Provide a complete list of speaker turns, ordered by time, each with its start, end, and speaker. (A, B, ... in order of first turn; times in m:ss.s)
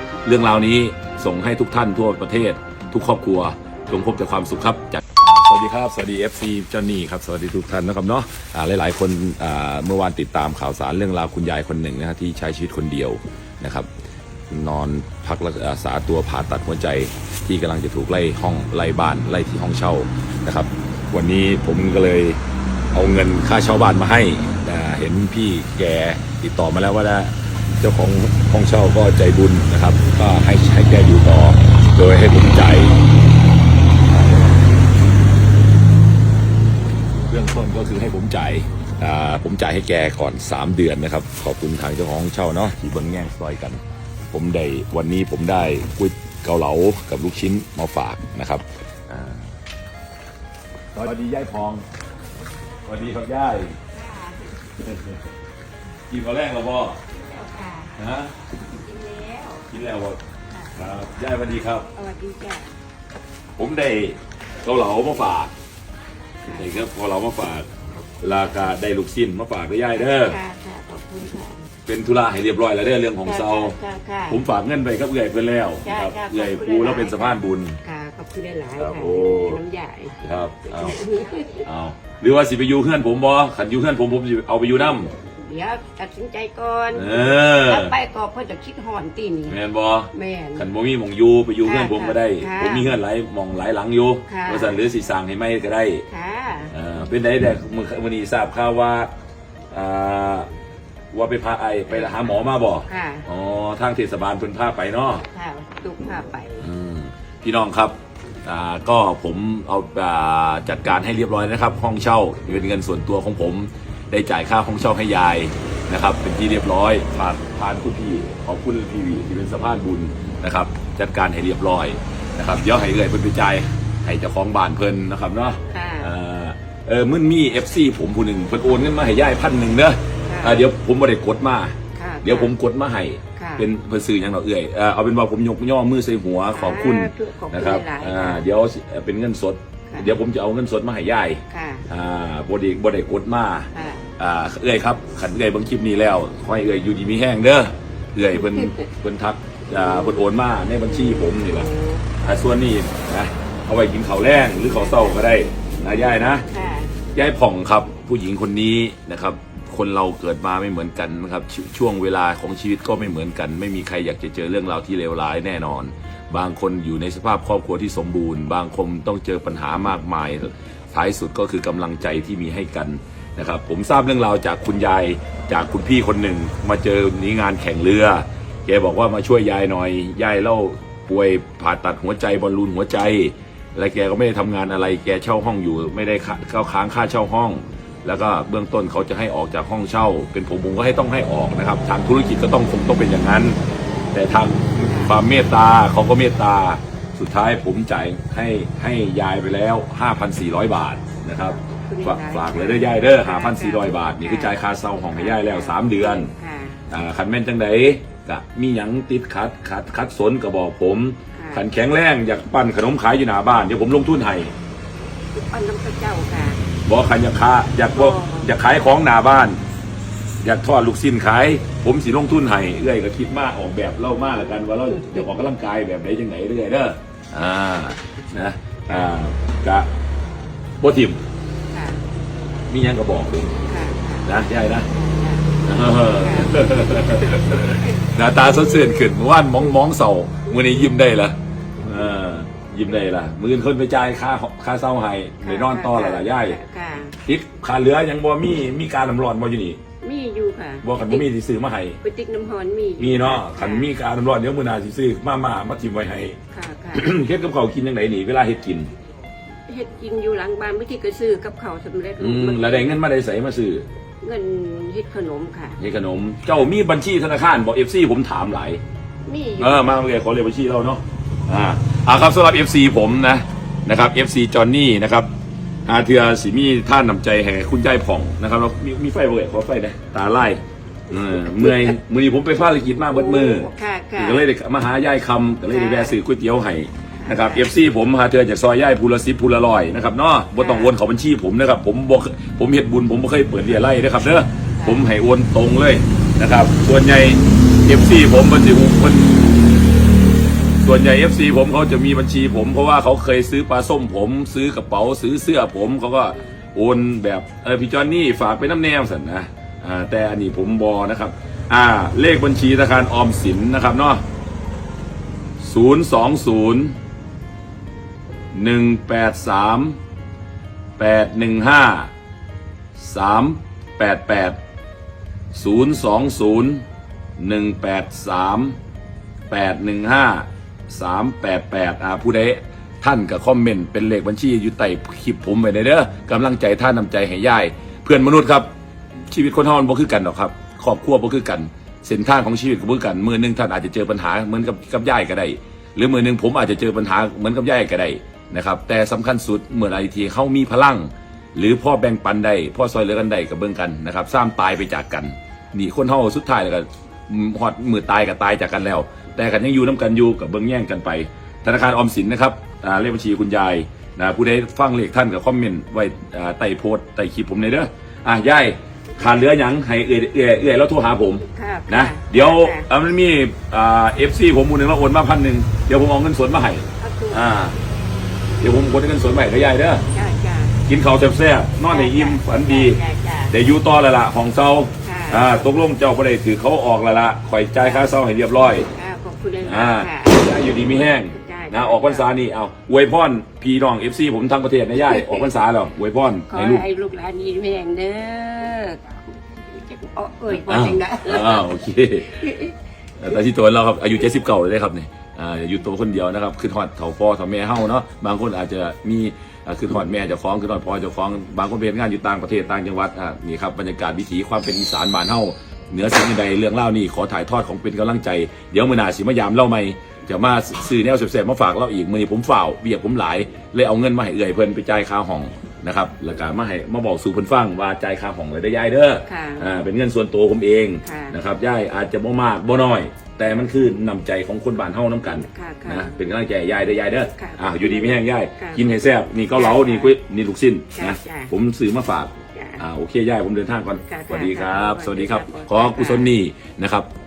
0:00.2-0:13.9 A
0:14.5-0:22.4 A
0:22.9-0:33.1 A
0:34.0-0:34.7 A
0:37.2-0:49.5 A
0:50.9-0:51.8 A
0:52.8-0:53.8 A
0:53.9-0:54.5 B
0:54.8-0:55.2 A
0:56.1-0:57.0 A
0:57.1-0:57.9 B
0:58.0-0:58.3 A
0:58.7-0:59.7 B
0:59.7-1:00.2 A
1:00.7-1:01.9 A
1:01.9-1:02.7 B
1:03.6-1:05.5 A
1:06.4-1:07.7 A
1:06.5-1:06.8 B
1:08.2-1:10.4 A
1:10.0-1:11.7 B
1:11.8-1:13.8 A
1:13.2-1:14.4 B
1:14.3-1:17.8 A
1:15.8-1:20.2 B
1:18.8-1:19.6 A
1:20.2-1:21.0 A
1:20.7-1:21.7 B
1:21.6-1:25.1 A
1:25.2-1:29.6 B
1:26.9-1:27.9 A
1:29.5-1:36.0 A
1:30.1-1:30.6 B
1:31.6-1:32.9 B
1:34.3-1:34.8 B
1:36.1-1:36.7 B
1:36.7-1:39.1 A
1:39.7-1:40.5 A
1:41.1-1:45.2 A
1:41.9-1:43.3 B
1:45.2-1:46.6 B
1:46.6-2:31.7 A
2:05.7-2:06.1 B
2:10.2-2:10.7 B
2:11.9-2:12.5 B
2:13.4-2:13.7 B
2:16.5-2:18.4 B
2:21.5-2:21.8 B
2:23.7-2:24.0 B
2:28.3-2:28.9 B
2:29.7-2:30.2 B
2:30.8-2:32.1 B
2:32.2-2:36.4 A
2:34.7-2:35.2 B
2:36.4-2:36.9 B
2:37.1-3:13.6 A
3:14.1-3:26.3 A
3:14.8-3:15.2 B
3:21.4-3:24.6 B
3:25.1-3:26.9 B
3:26.9-3:34.5 A
3:31.3-3:31.6 B
3:35.3-3:36.6 B
3:36.8-3:39.6 A
3:37.9-3:38.5 B
3:40.4-3:49.9 A
3:45.0-3:45.3 B
3:48.9-3:49.1 B
3:50.8-3:51.2 A
3:51.7-3:52.0 B
3:52.7-3:53.6 A
3:53.6-3:54.3 B
3:54.2-3:54.9 A
3:54.9-3:58.0 B
3:55.6-4:06.6 A
4:05.4-4:07.2 B
4:07.2-4:09.8 A
4:10.0-4:11.3 B
4:10.8-4:12.0 A
4:12.0-4:13.9 B
4:13.0-4:16.4 A
4:16.5-4:17.1 B
4:16.9-4:18.9 A
4:19.7-4:23.0 B
4:22.2-4:23.8 A
4:24.2-4:25.8 B
4:25.8-4:28.8 A
4:29.2-4:30.0 B
4:29.6-4:35.3 A
4:35.8-4:59.7 A
4:41.1-4:42.0 B
4:43.0-4:44.5 B
4:45.7-4:46.2 B
4:47.2-4:47.7 B
4:50.6-4:51.0 B
4:54.8-4:55.1 B
5:00.8-5:14.2 A
5:15.6-5:17.0 A
5:18.5-5:20.0 A
5:21.0-5:22.1 A
5:23.0-5:24.6 A
5:25.5-5:26.8 A
5:27.4-5:28.8 A
5:29.5-5:38.7 A
5:39.3-6:17.8 A
6:11.4-6:12.9 B
6:17.0-6:17.4 B
6:18.6-6:20.0 A
6:20.1-6:20.8 B
6:20.8-6:28.9 A
6:21.9-6:23.6 B
6:25.0-6:25.6 B
6:27.8-6:28.1 B
6:28.9-6:30.5 B
6:29.6-6:36.8 A
6:31.2-6:32.3 B
6:35.1-6:35.5 B
6:36.5-6:39.0 B
6:39.7-6:41.7 B
6:40.5-6:42.5 A
6:42.3-6:42.7 B
6:43.2-7:27.1 A
7:09.2-7:09.8 B
7:11.0-7:11.4 B
7:15.2-7:16.2 B
7:17.3-7:18.9 B
7:19.5-7:20.1 B
7:20.9-7:21.5 B
7:22.5-7:22.8 B
7:24.0-7:26.3 B